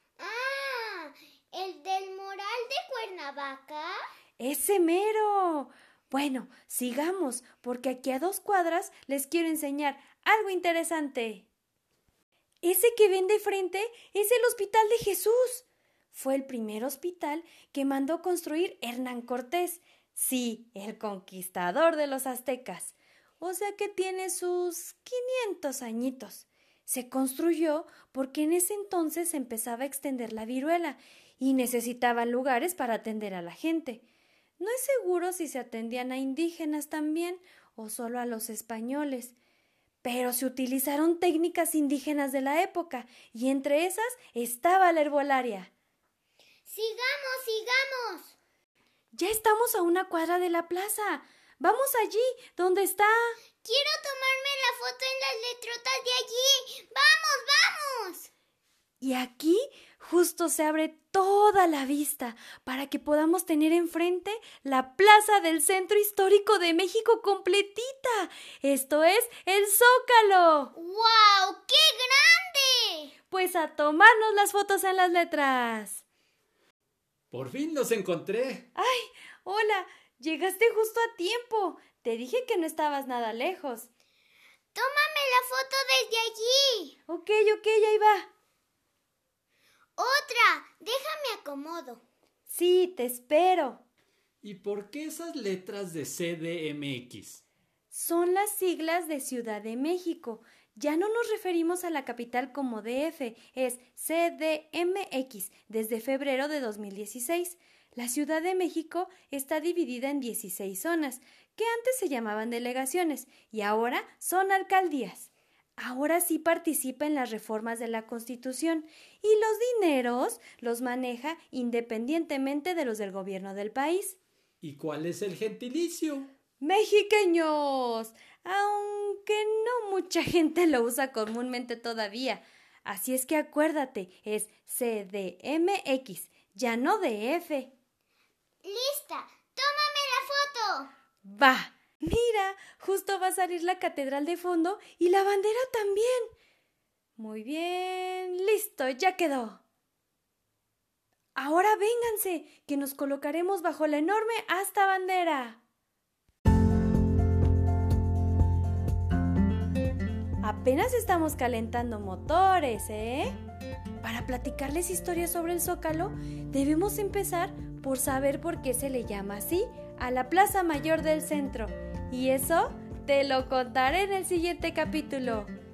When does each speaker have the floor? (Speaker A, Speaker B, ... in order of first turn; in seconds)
Speaker A: 0.2-4.0, 46.7-48.3, 53.6-58.3, 70.8-73.1, 84.7-86.9, 90.0-92.0, 138.6-140.9
Speaker B: 4.4-11.4, 12.6-34.0, 34.6-39.4, 40.0-45.7, 49.1-53.4, 59.0-70.7, 73.3-76.0, 78.7-83.9, 87.1-88.3, 92.5-93.8, 97.9-124.2, 126.6-137.7, 141.2-146.3, 147.2-149.6, 151.3-155.6, 160.4-163.3, 164.0-175.5
Speaker C: 77.3-78.7, 94.4-97.4, 124.6-126.3